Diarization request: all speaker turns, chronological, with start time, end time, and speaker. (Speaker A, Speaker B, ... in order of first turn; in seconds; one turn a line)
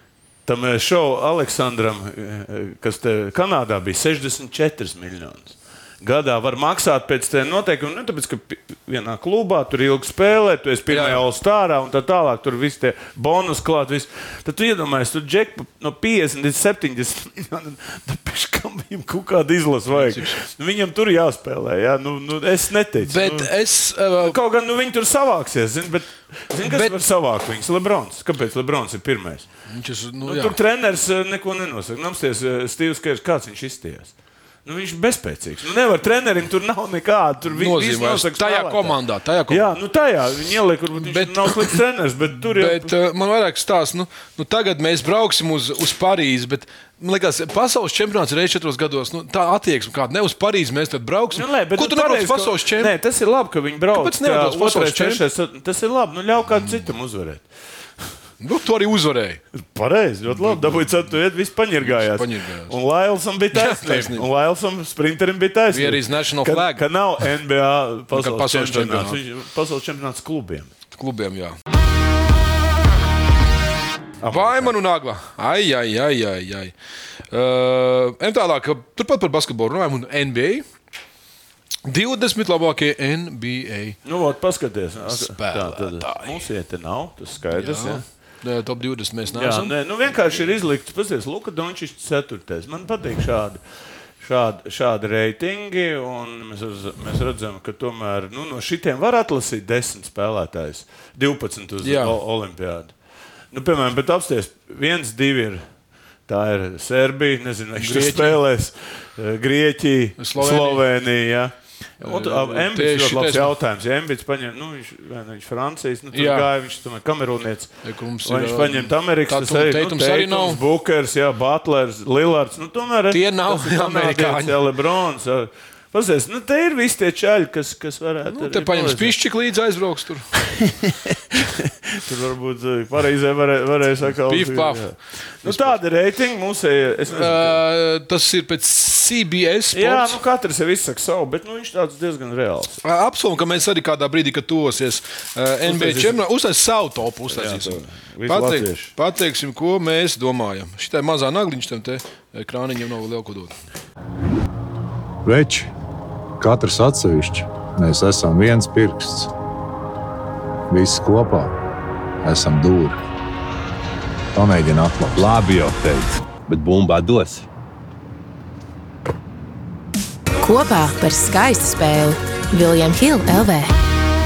Speaker A: 0.5-23.5
Speaker B: 10.9-11.2
Speaker B: 19.9-20.4
Speaker B: 23.0-24.4
Speaker A: 24.2-29.5
Speaker B: 26.6-27.0
Speaker B: 29.7-30.6
Speaker A: 30.2-34.1
Speaker A: 34.6-39.0
Speaker B: 37.5-39.7
Speaker A: 39.5-42.9
Speaker B: 41.0-41.8
Speaker B: 42.4-52.9
Speaker A: 51.3-57.5
Speaker B: 53.9-55.2
Speaker B: 58.4-59.4
Speaker A: 59.6-70.7
Speaker B: 60.3-60.9
Speaker B: 61.8-62.8
Speaker B: 63.5-64.3
Speaker B: 65.7-66.8
Speaker B: 68.1-69.2
Speaker B: 70.9-71.6
Speaker A: 74.2-74.7
Speaker B: 74.3-76.7
Speaker B: 77.3-80.7
Speaker B: 81.8-84.0
Speaker A: 84.1-88.0
Speaker B: 85.1-86.3
Speaker B: 87.5-89.7
Speaker A: 89.3-93.6
Speaker A: 94.2-102.9
Speaker B: 101.8-102.2
Speaker A: 103.5-105.6
Speaker A: 106.3-117.7
Speaker B: 107.8-108.4
Speaker B: 110.2-110.8
Speaker B: 112.0-113.5
Speaker B: 116.1-116.5
Speaker B: 117.8-120.6
Speaker A: 118.2-129.2
Speaker B: 123.1-124.6
Speaker B: 128.3-130.3
Speaker A: 131.3-137.6
Speaker B: 134.3-134.9
Speaker B: 135.4-135.8
Speaker B: 137.1-140.2
Speaker A: 139.7-142.8
Speaker B: 142.8-153.6
Speaker A: 145.7-146.2
Speaker A: 147.3-148.9
Speaker C: 155.2-155.7
Speaker C: 156.4-159.3
Speaker C: 160.7-161.5
Speaker C: 162.2-163.0
Speaker C: 164.3-165.3
Speaker D: 165.2-167.5
Speaker E: 170.4-173.7